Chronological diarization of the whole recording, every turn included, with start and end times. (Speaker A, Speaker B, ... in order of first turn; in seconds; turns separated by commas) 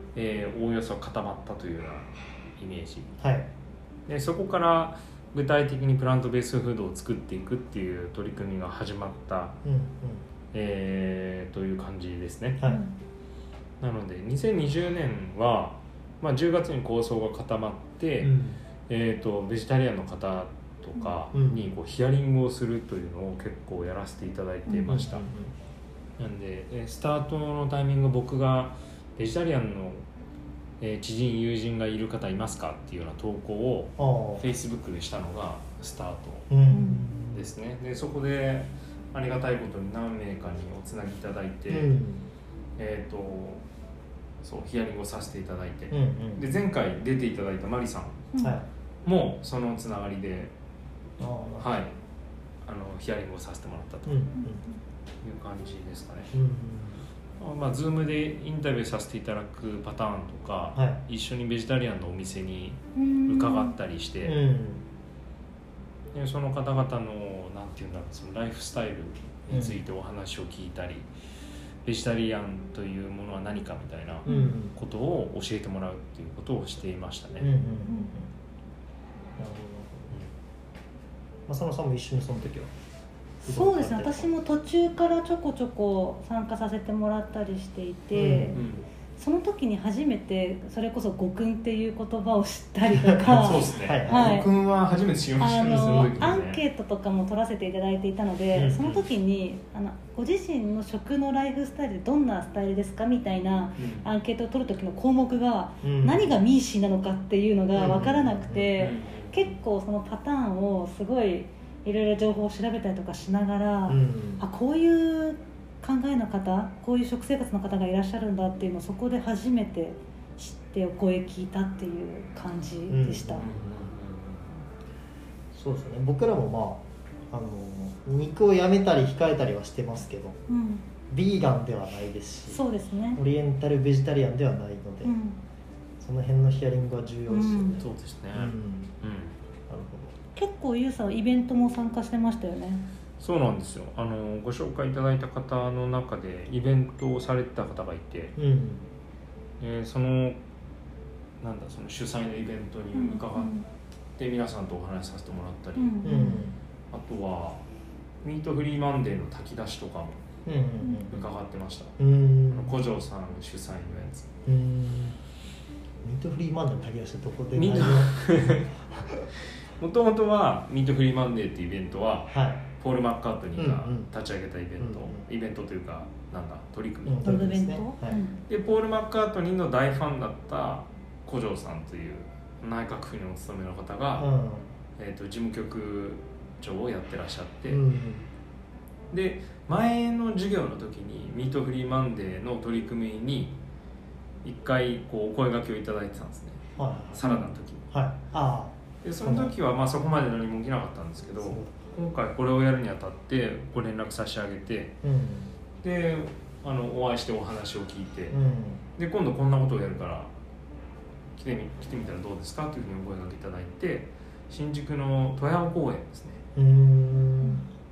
Speaker A: 0.1-3.1, Speaker B: 3.2-3.5, Speaker A: 4.1-9.6, Speaker B: 9.6-10.2, Speaker A: 10.5-12.6, Speaker C: 12.6-12.9, Speaker A: 13.8-25.3, Speaker B: 18.2-18.6, Speaker B: 21.3-21.7, Speaker C: 24.7-24.9, Speaker B: 24.9-25.5, Speaker A: 26.2-30.0, Speaker A: 30.8-36.5, Speaker B: 34.0-34.4, Speaker B: 36.5-37.5, Speaker C: 36.7-37.0, Speaker A: 37.3-41.9, Speaker B: 41.7-42.3, Speaker A: 42.8-43.6, Speaker A: 44.4-48.3, Speaker B: 45.9-46.4, Speaker C: 48.3-48.6, Speaker B: 48.4-48.7, Speaker A: 49.0-50.5, Speaker B: 51.2-51.8, Speaker A: 51.6-51.9, Speaker A: 52.6-54.2, Speaker B: 54.1-54.6, Speaker C: 54.4-54.7, Speaker A: 55.2-56.3, Speaker B: 56.3-57.0, Speaker A: 57.4-64.4, Speaker C: 63.0-63.8, Speaker B: 64.2-64.8, Speaker A: 66.1-71.1, Speaker B: 69.5-69.8, Speaker A: 71.8-77.5, Speaker C: 74.3-74.6, Speaker B: 74.3-74.8, Speaker B: 77.4-78.3, Speaker C: 77.9-78.1, Speaker B: 79.4-80.2, Speaker B: 81.5-82.7, Speaker C: 83.4-88.6, Speaker B: 83.4-84.3, Speaker B: 88.1-88.6, Speaker A: 88.5-88.8, Speaker C: 89.2-94.5, Speaker B: 92.9-94.5, Speaker A: 93.2-96.6, Speaker C: 95.4-123.5, Speaker B: 95.6-96.2, Speaker B: 98.5-99.0, Speaker A: 103.8-104.1, Speaker B: 105.8-106.4, Speaker B: 107.8-108.7, Speaker A: 108.8-109.5, Speaker B: 113.9-114.4, Speaker B: 122.9-123.7, Speaker A: 123.4-124.6, Speaker B: 125.5-130.4, Speaker C: 130.5-130.8, Speaker B: 131.1-132.6, Speaker C: 132.5-133.2, Speaker B: 133.2-135.2, Speaker C: 135.0-135.4, Speaker B: 136.0-138.9, Speaker C: 137.3-137.8, Speaker A: 137.8-139.3, Speaker B: 139.7-140.2, Speaker C: 140.3-142.8, Speaker A: 143.2-148.3, Speaker B: 148.4-148.8, Speaker A: 149.6-150.4, Speaker A: 151.4-153.5, Speaker C: 152.9-153.7, Speaker A: 154.2-156.1, Speaker C: 155.8-156.4, Speaker B: 156.0-156.6, Speaker A: 156.9-157.6, Speaker A: 158.2-160.2, Speaker B: 160.5-161.3, Speaker A: 161.1-162.0, Speaker B: 162.0-162.7, Speaker A: 162.5-164.3, Speaker B: 164.5-165.2, Speaker B: 166.0-169.3, Speaker A: 167.6-168.7, Speaker A: 169.8-177.4, Speaker B: 172.3-172.6, Speaker B: 173.6-174.1, Speaker B: 174.8-175.2, Speaker B: 177.1-178.2, Speaker C: 177.2-178.4, Speaker A: 178.5-184.3, Speaker B: 184.2-184.7, Speaker A: 185.0-187.8, Speaker B: 187.7-188.3, Speaker A: 189.1-193.6, Speaker A: 194.4-197.8, Speaker B: 196.8-197.3, Speaker B: 197.9-199.5, Speaker A: 199.0-205.0, Speaker B: 201.4-201.8, Speaker B: 205.0-205.5, Speaker A: 205.8-208.4, Speaker B: 208.3-208.8, Speaker A: 209.0-210.3, Speaker A: 211.4-216.4, Speaker B: 216.6-217.6